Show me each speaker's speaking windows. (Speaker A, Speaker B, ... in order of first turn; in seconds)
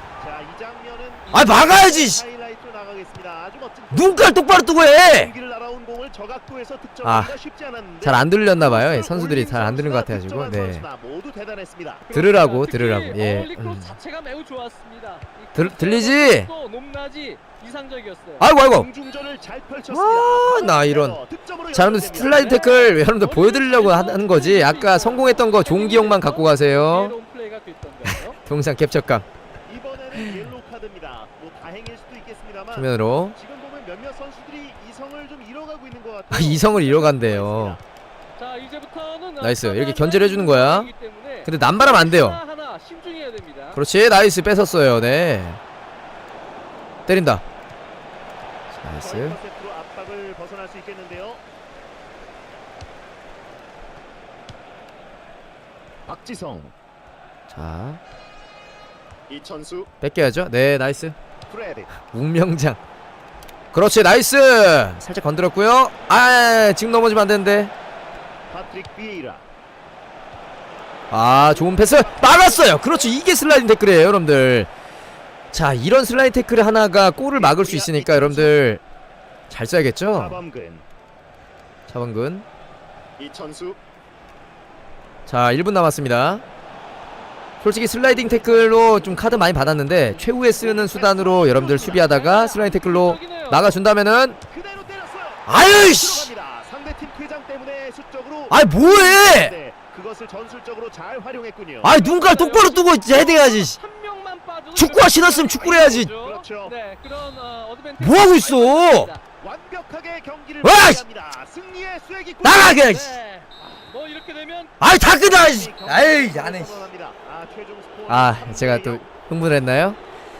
Speaker A: 0.2-12.1, 18.6-22.7, 29.6-37.8, 49.0-51.4, 56.0-56.7, 59.3-59.9, 61.5-61.9, 68.5-69.4, 77.3-78.6, 80.1-80.8, 83.2-83.8, 88.1-89.5, 90.4-92.2, 94.5-102.0, 105.6-106.8, 109.4-112.8, 113.6-113.9, 115.2-119.0
Speaker B: 1.3-2.2, 3.9-5.3, 7.0-7.3, 8.0-10.8, 12.1-13.9, 15.5-16.5, 18.4-18.9, 19.9-21.2, 21.7-27.1, 28.0-29.3, 32.7-33.4, 36.3-37.8, 39.4-40.9, 41.4-42.4, 43.7-45.6, 47.1-47.4, 48.7-49.4, 57.5-58.0, 60.0-61.1, 62.1-62.8, 63.7-67.7, 71.1-74.7, 75.5-78.8, 79.5-80.4, 81.9-82.5, 85.2-86.4, 87.6-94.4, 95.5-96.3, 98.5-99.5, 101.8-103.8, 104.7-106.1, 108.0-109.1, 110.6-111.0, 112.4-113.2, 114.8-116.8, 118.1-120.0
Speaker C: 12.1-18.4, 22.3-28.4, 38.4-43.8, 91.8-93.8, 101.9-109.2, 112.7-114.7